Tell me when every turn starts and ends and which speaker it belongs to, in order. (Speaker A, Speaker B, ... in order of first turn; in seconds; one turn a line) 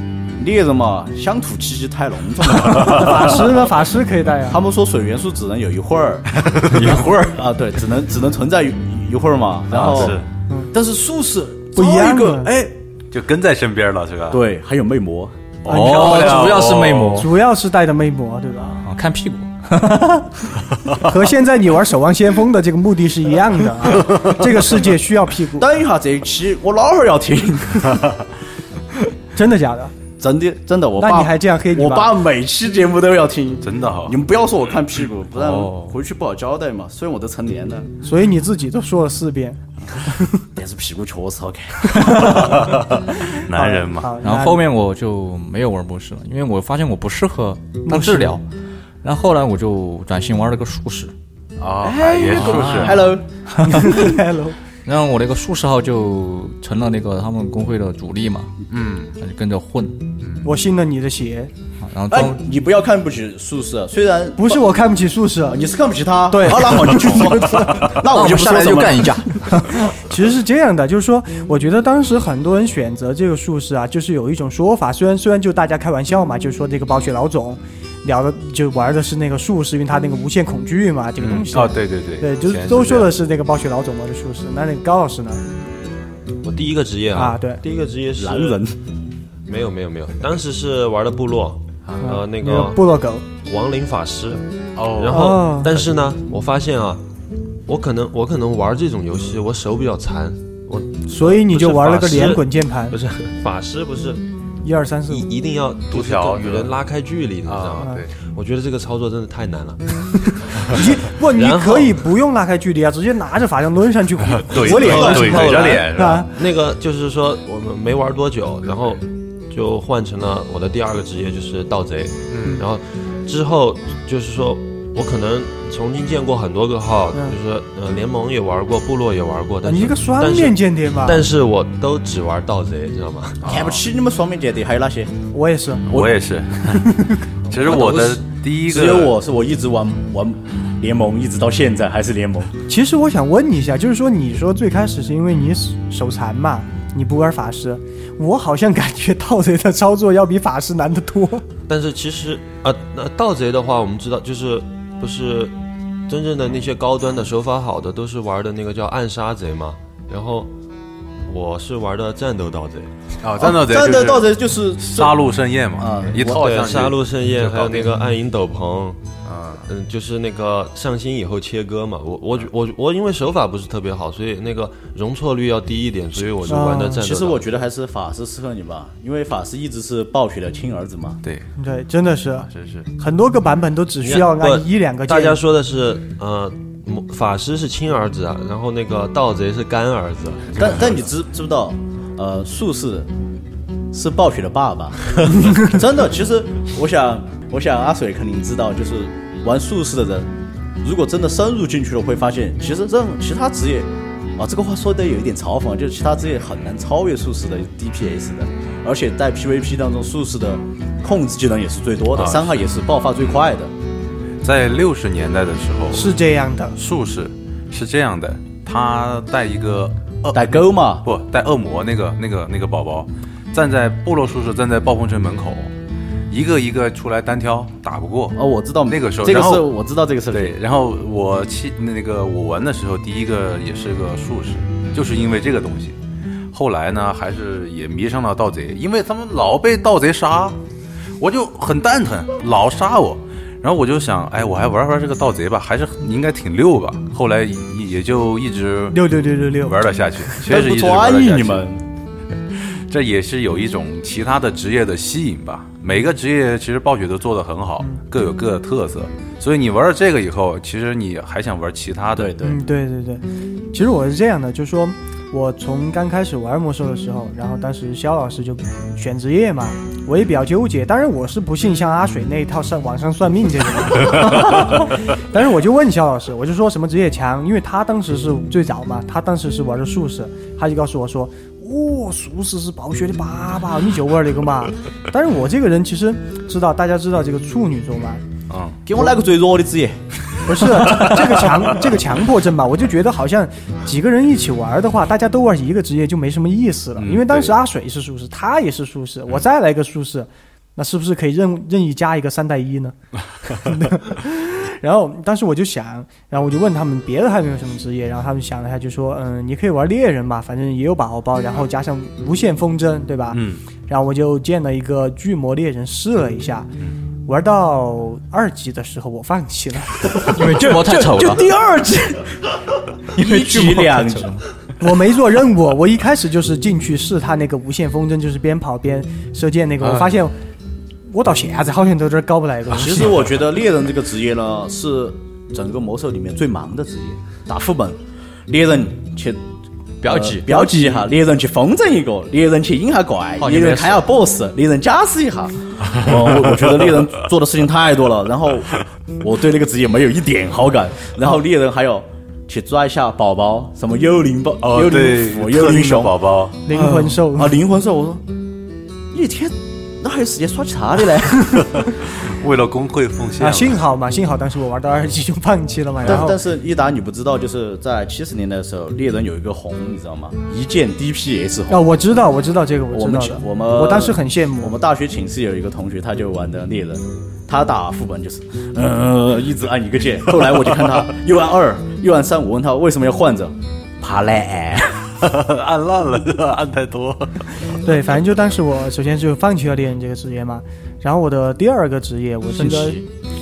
Speaker A: 0.4-3.7
Speaker B: 2.7-4.6
Speaker A: 4.5-10.2
Speaker C: 6.4-6.9
Speaker D: 6.7-7.3
Speaker D: 9.7-10.2
Speaker C: 9.8-10.2
Speaker A: 10.7-12.7
Speaker B: 11.8-12.5
Speaker C: 13.1-14.4
Speaker A: 14.3-15.4
Speaker C: 15.6-17.2
Speaker B: 15.7-16.5
Speaker D: 15.7-17.3
Speaker B: 17.1-18.8
Speaker D: 18.7-20.3
Speaker B: 21.0-25.6
Speaker C: 24.1-24.3
Speaker A: 25.6-28.1
Speaker B: 29.4-29.9
Speaker A: 30.2-37.9
Speaker B: 31.0-32.1
Speaker C: 33.6-34.1
Speaker D: 35.3-36.0
Speaker B: 38.0-40.4
Speaker A: 40.5-42.5
Speaker B: 41.8-44.6
Speaker C: 42.6-44.2
Speaker D: 44.2-48.4
Speaker B: 47.9-48.4
Speaker D: 49.0-51.1
Speaker C: 51.6-53.1
Speaker A: 51.8-53.2
Speaker D: 52.2-54.2
Speaker B: 53.6-54.5
Speaker D: 54.9-58.5
Speaker C: 58.7-59.1
Speaker D: 59.1-60.0
Speaker B: 60.4-61.5
Speaker D: 61.8-62.4
Speaker A: 62.1-64.5
Speaker B: 64.4-65.6
Speaker A: 65.5-69.2
Speaker B: 66.3-68.3
Speaker D: 68.0-69.9
Speaker B: 69.9-85.4
Speaker C: 81.2-83.1
Speaker E: 86.4-88.6
Speaker B: 87.1-87.6
Speaker A: 88.2-88.8
Speaker E: 89.5-92.8
Speaker C: 91.9-92.1
Speaker B: 92.0-93.2
Speaker E: 93.4-97.0
Speaker C: 94.8-95.4
Speaker B: 95.1-95.7
Speaker E: 97.7-104.2
Speaker B: 101.1-103.0
Speaker B: 104.6-105.3
Speaker E: 105.1-112.0
Speaker C: 105.9-106.7
Speaker C: 107.4-108.1
Speaker B: 110.6-116.3
Speaker C: 114.3-116.3
Speaker E: 114.6-115.8
Speaker A: 114.7-115.8
Speaker E: 116.3-133.5
Speaker C: 122.3-122.6
Speaker B: 129.6-131.2
Speaker C: 133.4-133.8
Speaker A: 133.5-135.1
Speaker B: 135.3-135.8
Speaker C: 135.9-139.2
Speaker A: 135.9-136.2
Speaker A: 138.7-142.5
Speaker B: 142.7-151.4
Speaker E: 151.7-155.5
Speaker E: 156.1-160.5
Speaker E: 161.3-162.9
Speaker C: 163.2-167.9
Speaker A: 163.4-165.2
Speaker A: 165.8-166.4
Speaker E: 166.2-169.0
Speaker C: 169.2-169.7
Speaker E: 169.7-177.5
Speaker B: 176.5-177.0
Speaker A: 177.0-181.2
Speaker B: 181.6-185.4
Speaker C: 182.5-182.9
Speaker E: 184.0-191.0
Speaker A: 190.6-193.1
Speaker A: 193.9-200.3
Speaker A: 200.8-213.7
Speaker C: 212.1-212.7
Speaker C: 214.4-216.2
Speaker B: 215.9-216.8
Speaker C: 216.8-225.7
Speaker A: 220.3-221.1
Speaker C: 226.3-229.7
Speaker A: 228.3-230.6
Speaker C: 230.3-236.0
Speaker C: 236.5-240.6
Speaker C: 241.2-249.1
Speaker B: 248.9-249.8
Speaker C: 249.6-251.7
Speaker A: 250.4-251.8
Speaker C: 252.7-262.3
Speaker A: 262.1-262.6
Speaker B: 262.4-288.2
Speaker C: 288.5-288.8
Speaker A: 288.8-290.0
Speaker B: 290.4-316.7
Speaker A: 290.7-291.8
Speaker D: 290.8-291.2
Speaker C: 297.0-297.6
Speaker C: 313.3-313.6
Speaker B: 317.2-320.4
Speaker D: 320.1-321.5
Speaker A: 320.2-322.4
Speaker A: 323.1-324.3
Speaker D: 323.1-324.4
Speaker B: 324.8-330.3
Speaker B: 331.1-333.2
Speaker A: 332.7-339.4
Speaker D: 340.0-341.0
Speaker A: 340.0-358.2
Speaker D: 343.4-344.1
Speaker C: 354.6-356.6
Speaker B: 356.7-357.6
Speaker A: 359.1-361.7
Speaker C: 361.8-363.8
Speaker B: 363.4-366.4
Speaker A: 366.0-371.8
Speaker B: 371.7-374.8
Speaker A: 372.9-385.0
Speaker C: 385.2-387.8
Speaker B: 387.8-393.0
Speaker D: 392.5-393.1